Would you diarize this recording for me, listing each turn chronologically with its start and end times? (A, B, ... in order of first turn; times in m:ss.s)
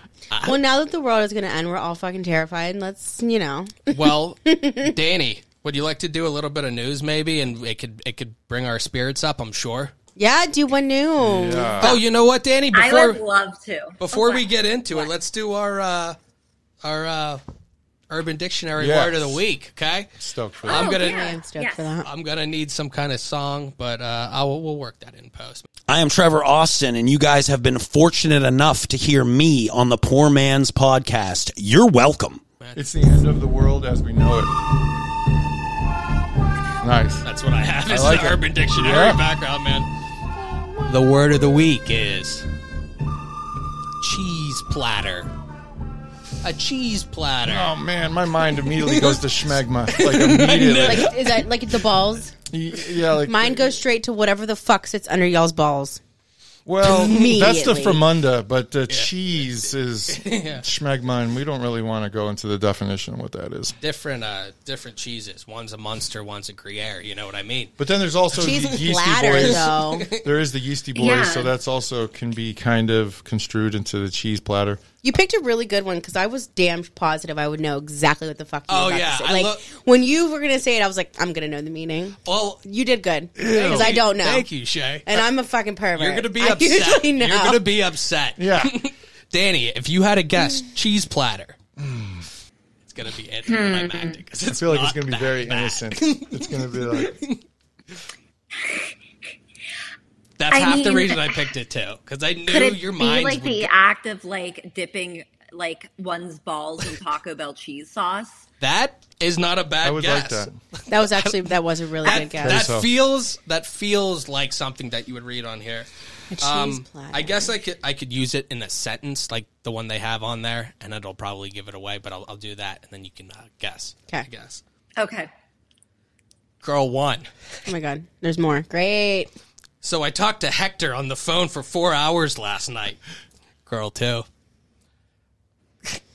0:00.3-0:00.6 A
0:00.4-0:04.0 B
0:03.9-0:09.9 A
0:04.5-0:04.9 B
0:10.2-0:12.0 B
0:11.2-0:12.0 C
0:11.8-0:13.2 A
0:12.7-0:15.1 D
0:14.0-0:16.2 A
0:16.8-0:17.4 A
0:18.1-0:20.1 A
0:18.8-0:19.4 C
0:20.2-0:20.9 C
0:20.7-0:21.3 A
0:20.7-0:21.9 D
0:20.7-0:22.1 B
0:22.0-0:25.7 A
0:25.9-0:32.4 E
0:32.8-0:34.5 C
0:36.8-0:37.2 C
0:37.2-0:39.9 A
0:37.8-0:39.2 C
0:40.9-0:42.5 A
0:44.0-0:45.3 A
0:46.4-0:47.7 A
0:47.4-0:51.1 C
0:48.8-0:49.2 A
0:49.9-0:51.4 A
0:50.8-0:52.4 B
0:52.5-0:53.7 C
0:53.3-0:56.0 B
0:56.7-1:03.8 C
0:56.8-0:58.0 B
1:00.1-1:00.7 A
1:03.8-1:07.7 A
1:07.8-1:14.8 C
1:08.4-1:08.7 A
1:08.4-1:10.1 B
1:09.3-1:10.3 A
1:11.0-1:11.5 D
1:15.0-1:24.5 B
1:18.7-1:19.6 A
1:22.3-1:22.6 A
1:23.4-1:25.3 A
1:23.4-1:23.9 C
1:25.1-1:27.6 B
1:26.0-1:31.6 A
1:28.4-1:28.8 C
1:31.8-1:32.3 C
1:32.8-1:37.4 A
1:33.5-1:34.2 D
1:34.5-1:37.2 C
1:40.4-1:43.7 A
1:40.5-1:41.4 D
1:42.5-1:48.4 D
1:48.6-1:51.4 A
1:49.8-1:50.6 C
1:50.9-1:52.7 B
1:52.0-1:55.9 A
1:52.1-1:52.9 C
1:56.3-1:57.5 B
1:56.4-2:04.6 A
2:05.0-2:05.3 D
2:06.6-2:07.3 A
2:07.7-2:09.3 B
2:09.8-2:13.0 A
2:13.7-2:14.3 A